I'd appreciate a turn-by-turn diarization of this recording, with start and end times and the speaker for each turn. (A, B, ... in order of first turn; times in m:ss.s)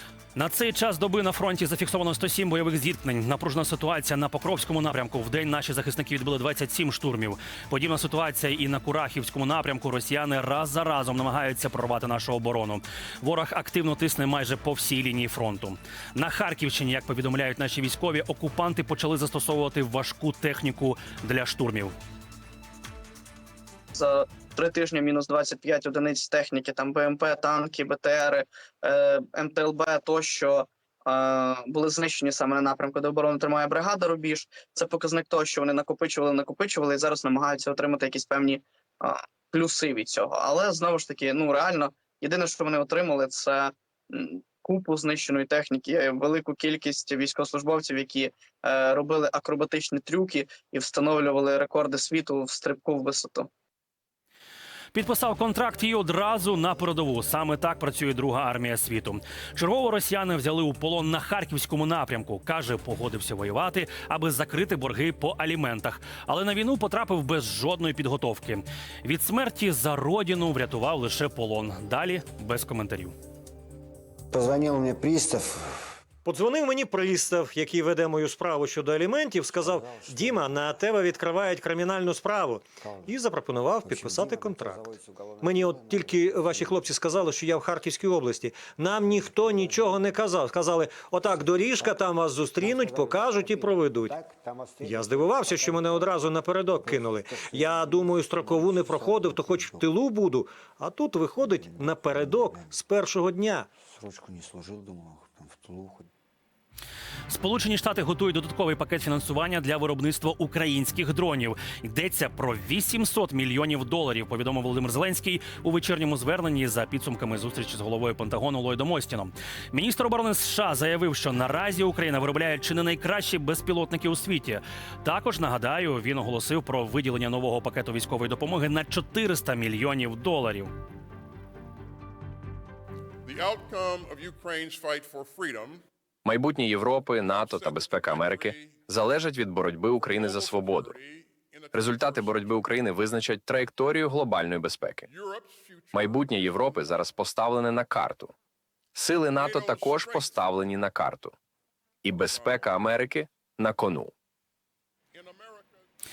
0:00.4-0:21.9 A
0:23.9-0:53.5 B
0:54.9-1:13.1 A
1:14.3-1:15.8 C
1:16.2-1:34.2 D
1:19.6-1:20.6 C
1:23.8-1:26.7 C
1:29.0-1:30.2 C
1:31.2-1:32.0 C
1:32.6-1:39.9 C
1:34.8-1:43.7 D
1:41.6-1:42.8 C
1:43.9-1:46.1 C
1:47.3-2:10.7 A
2:13.2-2:15.8 E
2:16.2-2:20.9 F
2:17.3-2:18.8 E
2:20.0-2:22.6 E
2:21.7-2:25.1 F
2:25.1-2:26.4 E
2:26.0-2:28.3 F
2:29.0-2:31.3 F
2:29.4-2:30.5 E
2:32.0-2:34.1 F
2:32.2-2:32.7 E
2:35.1-2:35.8 E